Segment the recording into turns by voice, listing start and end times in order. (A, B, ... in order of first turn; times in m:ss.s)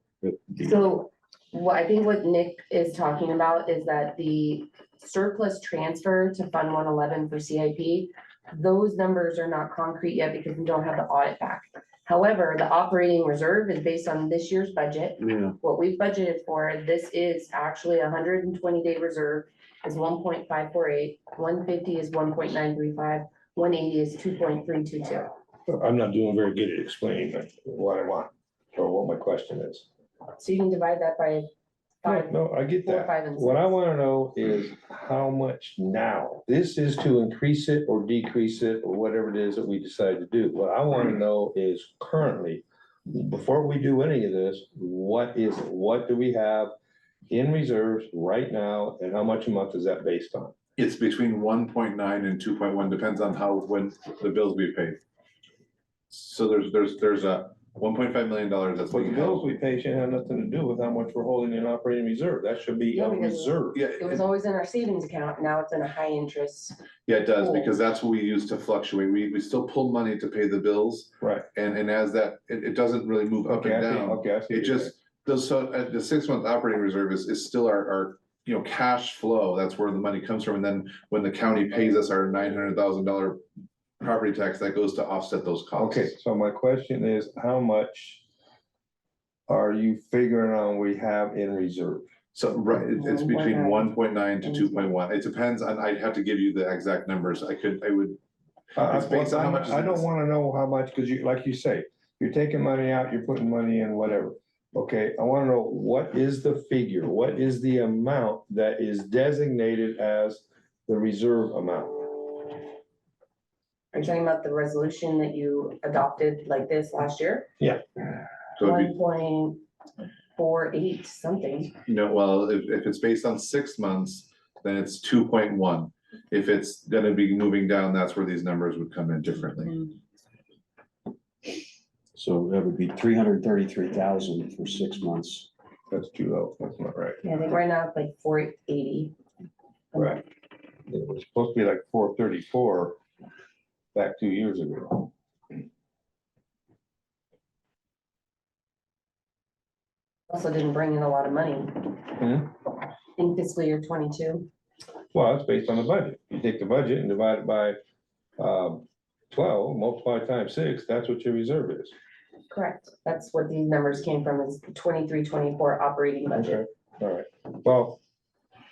0:00.6-0:25.3 A
0:15.2-0:15.6 B
0:25.7-0:29.9 C
0:30.4-0:31.5 A
0:32.0-0:33.7 A
0:32.0-0:46.7 C
0:47.3-0:50.5 C
0:50.8-0:55.0 D
0:56.1-0:59.5 D
0:58.9-1:03.8 C
1:02.9-1:06.8 A
1:03.8-1:04.2 D
1:07.1-1:23.4 D
1:07.4-1:07.7 A
1:11.2-1:11.5 C
1:13.5-1:14.9 C
1:24.0-1:26.1 D
1:25.8-1:28.2 C
1:29.5-1:32.1 C
1:32.4-1:38.2 D
1:32.9-1:33.9 A
1:34.4-1:34.9 A
1:38.8-1:40.1 D
1:38.8-1:52.5 C
1:53.9-1:57.5 A
1:58.6-1:58.9 D
1:58.6-1:59.6 A
2:00.4-2:01.7 A
2:01.9-2:09.9 D
2:12.2-2:15.5 B
2:15.9-2:17.2 C
2:17.2-2:19.2 A
2:19.9-2:20.2 A
2:20.0-2:20.2 C
2:20.9-2:23.0 C
2:24.0-2:25.1 C
2:30.3-2:32.0 A
2:32.2-2:32.5 C
2:33.2-2:34.5 A
2:35.1-2:37.8 C
2:38.4-2:41.9 C
2:42.5-2:46.6 A
2:46.3-2:48.0 C